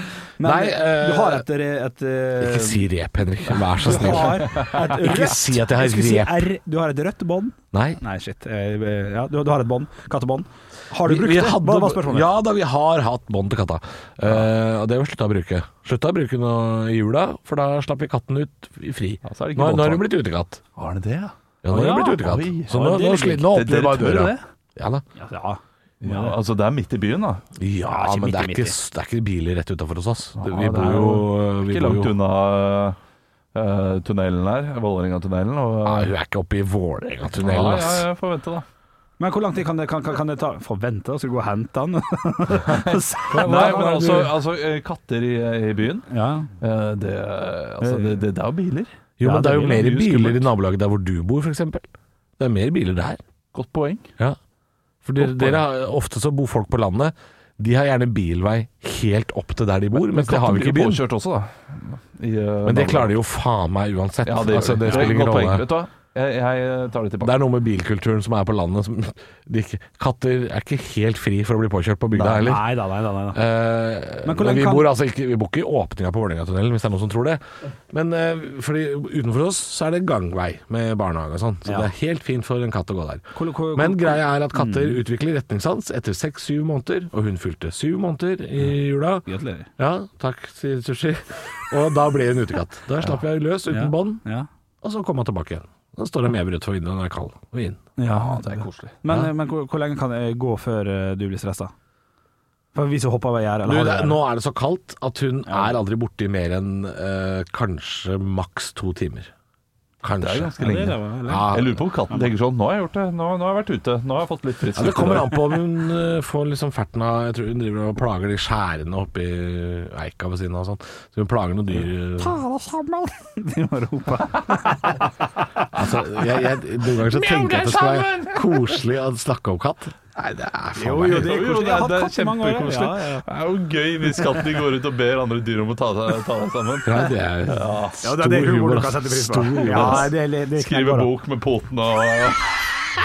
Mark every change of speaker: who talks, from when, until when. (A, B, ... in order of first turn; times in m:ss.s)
0:00.4-0:02.9 A
0:00.4-0:01.4 B
0:02.4-0:06.5 B
0:03.5-0:12.3 A
0:04.4-0:04.7 C
0:07.7-0:08.0 B
0:11.0-0:20.6 B
0:19.2-0:20.1 C
0:20.8-0:24.4 C
0:21.6-0:25.0 B
0:22.8-0:23.4 A
0:25.2-0:26.4 A
0:26.0-0:27.4 C
0:27.6-0:32.2 B
0:27.9-0:28.8 A
0:30.4-0:33.0 C
0:33.5-0:36.1 C
0:35.8-0:38.1 B
0:37.3-0:38.6 C
0:39.2-0:44.0 A
0:42.7-0:46.1 C
0:43.3-0:44.3 B
0:46.1-0:46.5 A
0:46.6-0:49.0 C
0:47.8-0:48.2 A
0:49.2-0:53.2 B
0:49.2-0:49.9 A
0:49.7-0:50.4 C
0:53.5-0:54.1 C
0:55.0-1:01.0 B
0:55.2-0:55.6 C
1:00.0-1:03.2 C
1:02.6-1:05.7 B
1:04.2-1:07.4 C
1:07.2-1:12.8 B
1:12.2-1:12.5 C
1:12.2-1:13.4 A
1:13.3-1:29.3 B
1:14.2-1:14.9 A
1:21.6-1:21.9 A
1:23.4-1:25.0 A
1:29.2-1:29.7 A
1:29.8-1:34.2 B
1:33.7-1:34.5 A
1:34.8-1:37.8 B
1:38.0-1:41.7 A
1:38.1-1:38.9 C
1:42.8-1:44.2 A
1:43.6-1:49.3 B
1:45.5-1:45.8 A
1:50.0-1:50.5 B
1:50.2-1:55.4 C
1:50.6-1:51.6 A
1:51.3-1:51.8 B
1:54.8-2:02.4 B
2:02.2-2:06.0 A
2:05.7-2:11.6 B
2:07.1-2:08.4 C
2:10.8-2:18.0 C
2:11.0-2:13.3 A
2:16.8-2:20.1 B
2:18.0-2:21.1 A
2:19.7-2:22.7 C